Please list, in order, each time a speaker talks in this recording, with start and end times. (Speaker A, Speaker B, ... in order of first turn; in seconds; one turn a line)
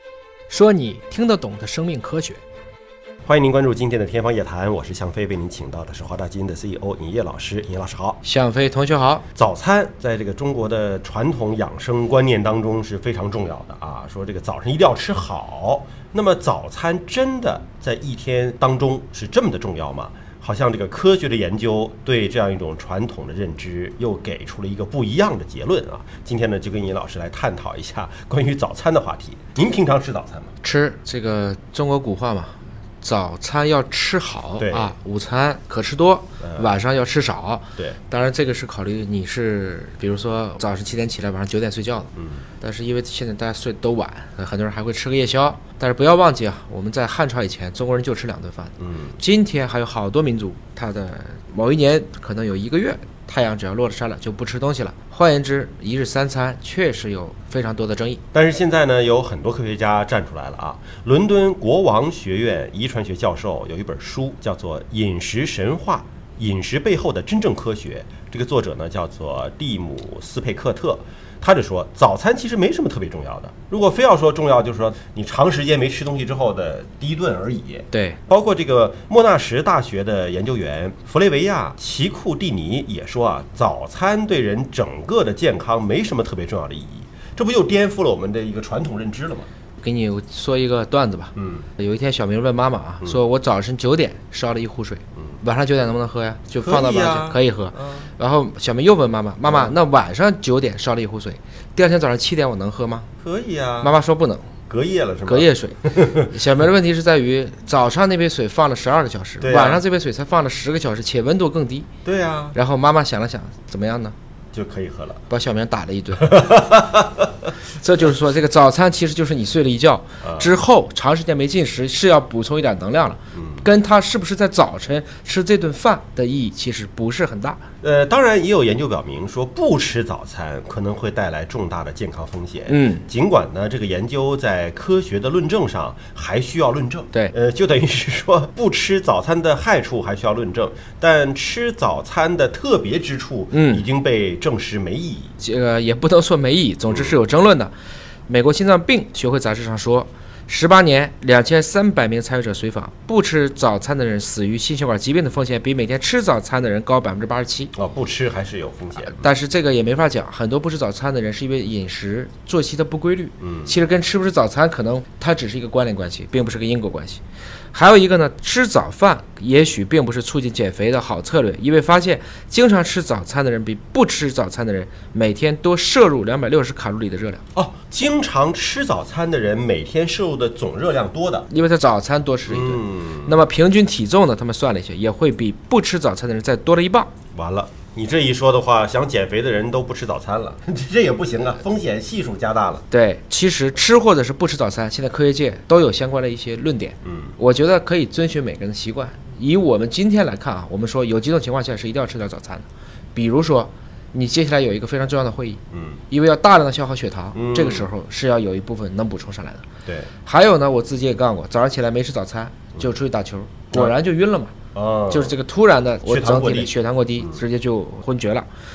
Speaker A: 0.5-2.4
Speaker B: 3.2-8.2
Speaker A: 8.2-9.2
Speaker B: 9.3-30.5
Speaker A: 30.6-42.1
Speaker B: 34.6-34.9
Speaker B: 36.4-36.8
Speaker B: 42.1-42.5
Speaker A: 42.6-58.2
Speaker B: 48.8-49.2
Speaker B: 58.3-89.5
Speaker A: 77.9-78.2
Speaker A: 89.8-103.1
Speaker B: 91.4-91.7
Speaker B: 96.6-98.1
Speaker B: 99.5-99.8
Speaker B: 103.2-103.9
Speaker A: 103.8-104.5
Speaker B: 104.7-106.2
Speaker A: 105.3-111.9
Speaker B: 109.4-109.8
Speaker B: 112.0-112.6
Speaker A: 112.5-114.2
Speaker B: 114.5-115.2
Speaker A: 115.3-116.6
Speaker B: 116.3-117.3
Speaker A: 117.8-127.6
Speaker B: 120.2-120.5
Speaker B: 123.3-123.7
Speaker B: 127.8-145.3
Speaker A: 132.7-133.1
Speaker A: 143.5-143.8
Speaker A: 145.4-147.7
Speaker B: 146.9-147.2
Speaker A: 148.3-157.7
Speaker B: 157.7-159.2
Speaker A: 159.0-167.2
Speaker B: 163.4-163.8
Speaker A: 167.7-177.4
Speaker B: 177.6-181.5
Speaker A: 181.5-187.1
Speaker B: 182.5-183.4
Speaker B: 187.3-192.8
Speaker A: 192.9-209.7
Speaker B: 197.0-197.3
Speaker B: 205.7-206.0
Speaker B: 207.3-207.9
Speaker A: 210.2-214.6
Speaker B: 214.7-215.4
Speaker A: 215.1-218.5
Speaker B: 216.0-217.4